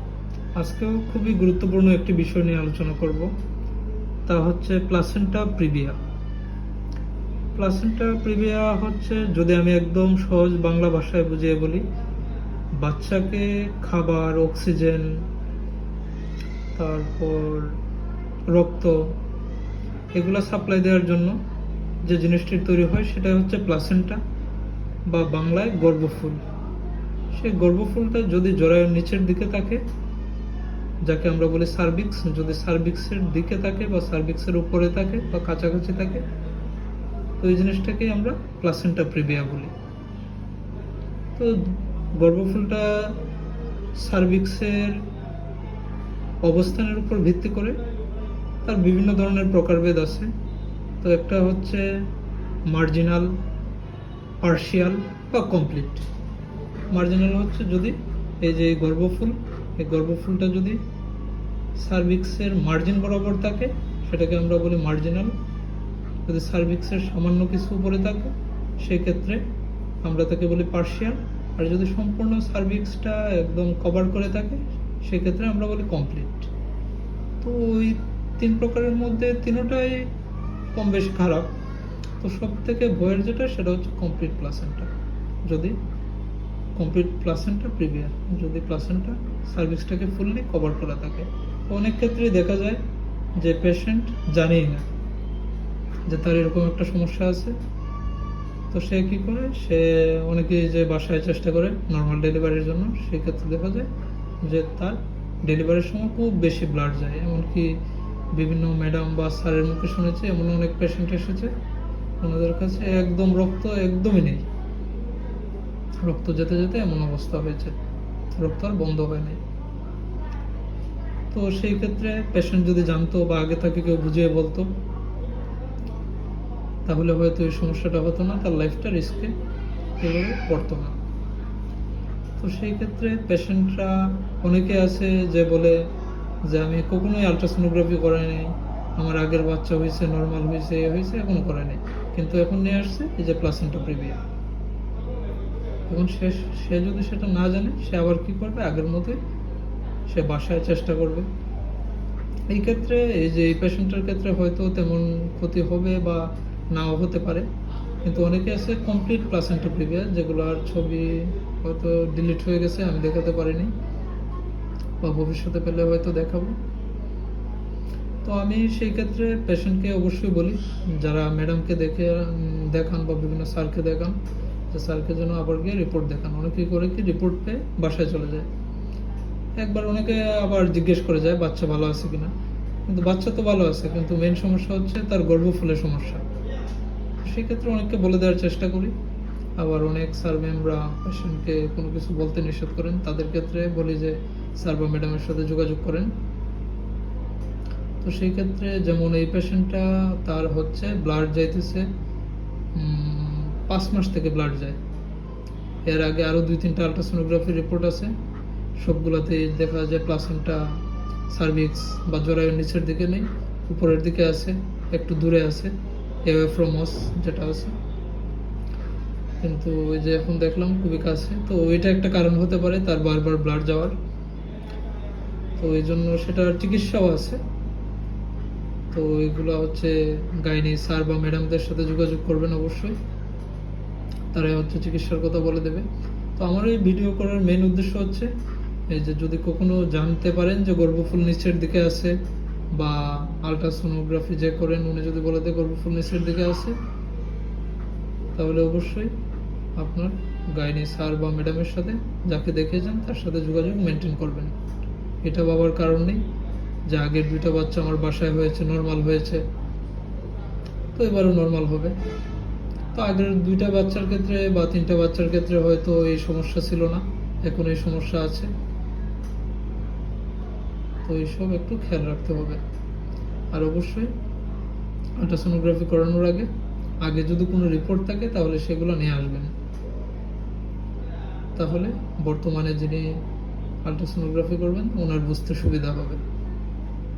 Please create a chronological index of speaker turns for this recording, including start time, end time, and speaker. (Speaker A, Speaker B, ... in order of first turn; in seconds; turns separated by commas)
Speaker A: 0.6-3.3, Speaker A: 4.3-6.0, Speaker A: 7.6-11.8, Speaker A: 12.8-15.2, Speaker A: 16.8-17.8, Speaker A: 18.5-19.0, Speaker A: 20.1-21.4, Speaker A: 22.1-24.2, Speaker A: 25.1-26.4, Speaker A: 27.3-29.8, Speaker A: 31.1-36.2, Speaker A: 37.4-39.7, Speaker A: 42.2-43.1, Speaker A: 44.0-45.0, Speaker A: 46.4-47.8, Speaker A: 48.6-50.3, Speaker A: 51.0-51.9, Speaker A: 52.7-53.3, Speaker A: 54.4-56.0, Speaker A: 56.9-60.8, Speaker A: 61.8-65.3, Speaker A: 66.3-69.4, Speaker A: 70.0-76.5, Speaker A: 77.4-80.1, Speaker A: 80.7-81.5, Speaker A: 82.2-84.9, Speaker A: 85.5-85.8, Speaker A: 86.8-92.8, Speaker A: 93.4-94.9, Speaker A: 96.1-97.6, Speaker A: 98.7-103.9, Speaker A: 104.4-107.8, Speaker A: 108.3-111.5, Speaker A: 112.2-114.5, Speaker A: 116.0-117.8, Speaker A: 118.3-119.4, Speaker A: 121.3-124.7, Speaker A: 126.9-129.3, Speaker A: 130.0-131.0, Speaker A: 132.4-135.8, Speaker A: 136.5-144.2, Speaker A: 145.9-149.2, Speaker A: 150.1-151.3, Speaker A: 152.5-157.5, Speaker A: 158.0-163.7, Speaker A: 165.0-166.6, Speaker A: 168.2-174.2, Speaker A: 174.7-178.5, Speaker A: 179.6-182.3, Speaker A: 182.9-186.2, Speaker A: 187.2-188.9, Speaker A: 189.6-196.1, Speaker A: 198.0-201.9, Speaker A: 202.8-204.8, Speaker A: 205.9-208.1, Speaker A: 208.8-210.6, Speaker A: 211.3-215.7, Speaker A: 216.2-217.8, Speaker A: 219.4-223.9, Speaker A: 225.6-227.4, Speaker A: 228.9-233.0, Speaker A: 234.3-235.8, Speaker A: 236.4-238.3, Speaker A: 238.9-242.1, Speaker A: 242.7-246.8, Speaker A: 248.4-249.1, Speaker A: 249.8-254.5, Speaker A: 255.2-256.2, Speaker A: 256.9-259.4, Speaker A: 261.0-261.9, Speaker A: 262.9-268.5, Speaker A: 271.1-272.6, Speaker A: 273.5-274.1, Speaker A: 275.2-276.5, Speaker A: 277.0-279.5, Speaker A: 281.6-283.1, Speaker A: 283.8-286.2